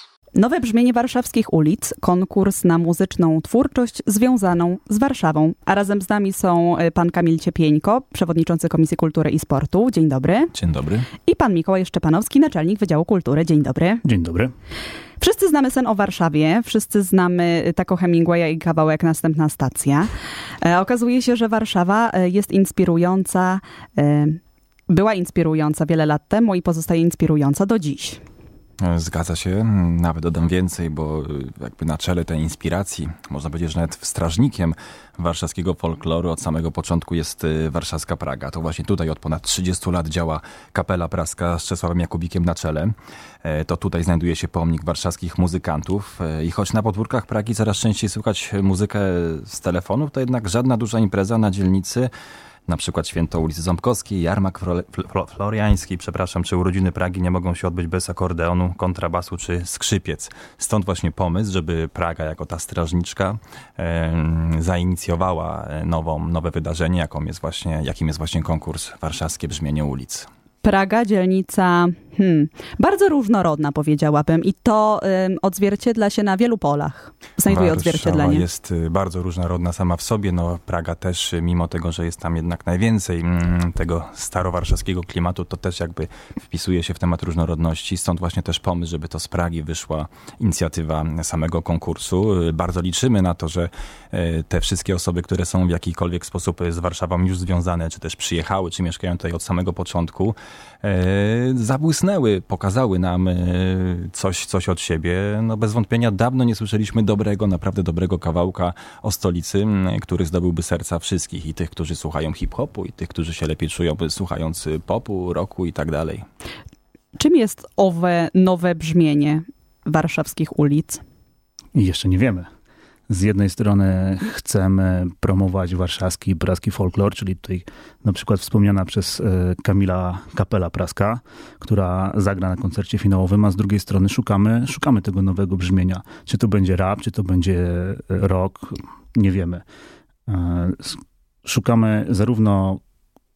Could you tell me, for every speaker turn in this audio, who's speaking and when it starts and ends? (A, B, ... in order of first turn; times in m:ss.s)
0:00.4-0:10.5 A
0:10.5-0:11.1 B
0:11.2-0:14.0 A
0:14.0-0:14.5 C
0:15.2-0:20.1 A
0:20.6-0:28.2 A
0:28.8-0:52.1 B
0:52.7-1:10.3 B
1:10.6-1:18.4 A
1:17.5-1:56.3 B
1:57.2-2:01.0 A
2:01.8-2:02.5 C
2:03.1-2:19.6 C
2:20.3-2:22.8 C